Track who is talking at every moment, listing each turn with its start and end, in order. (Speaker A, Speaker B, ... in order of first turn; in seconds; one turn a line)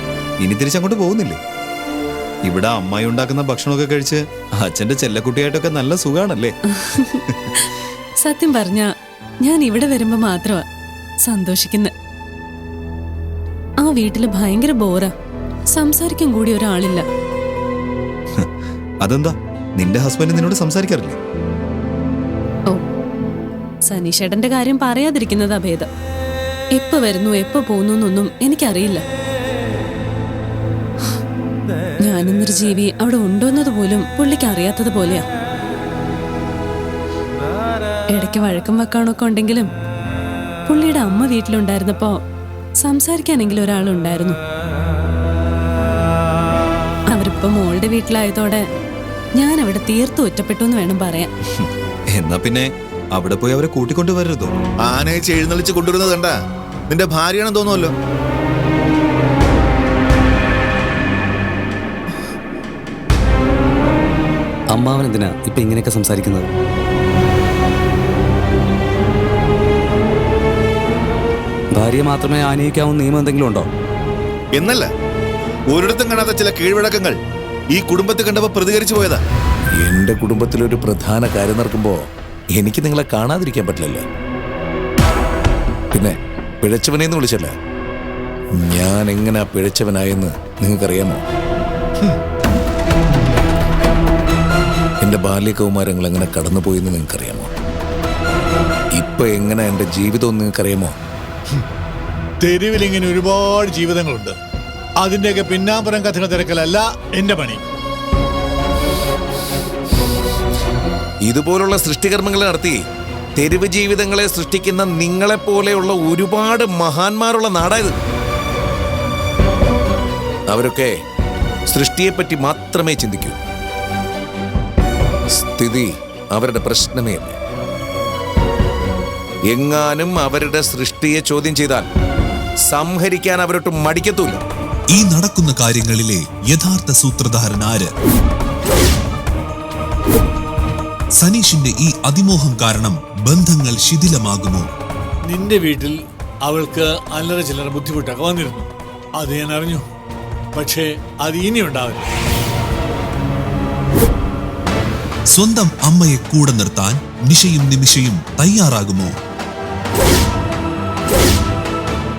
Speaker A: 0.4-1.4
Speaker A: 2.4-6.5
Speaker B: 6.7-7.7
Speaker B: 8.2-8.9
Speaker B: 9.4-10.6
Speaker B: 11.2-11.9
Speaker B: 13.8-15.1
Speaker B: 15.7-17.0
Speaker A: 19.0-21.2
Speaker B: 23.8-25.9
Speaker B: 26.7-29.0
Speaker B: 32.0-35.2
Speaker B: 38.1-39.7
Speaker B: 40.6-42.2
Speaker B: 42.8-44.4
Speaker B: 47.1-48.6
Speaker B: 49.4-51.3
Speaker A: 51.5-54.5
Speaker C: 54.8-56.3
Speaker C: 56.9-57.9
Speaker D: 64.7-66.5
Speaker D: 71.7-73.7
Speaker C: 74.5-74.9
Speaker C: 75.7-77.2
Speaker C: 77.7-79.2
Speaker E: 79.8-82.0
Speaker E: 82.5-84.0
Speaker E: 85.9-87.5
Speaker E: 88.5-91.2
Speaker E: 95.0-97.5
Speaker E: 99.0-101.0
Speaker F: 102.4-104.3
Speaker F: 105.0-107.6
Speaker E: 111.3-112.7
Speaker E: 113.4-117.9
Speaker E: 120.5-120.9
Speaker E: 121.7-123.3
Speaker E: 125.3-127.3
Speaker E: 129.5-131.8
Speaker E: 132.7-134.4
Speaker G: 134.9-137.9
Speaker G: 141.2-144.7
Speaker F: 145.2-149.8
Speaker F: 150.6-152.0
Speaker G: 155.3-159.1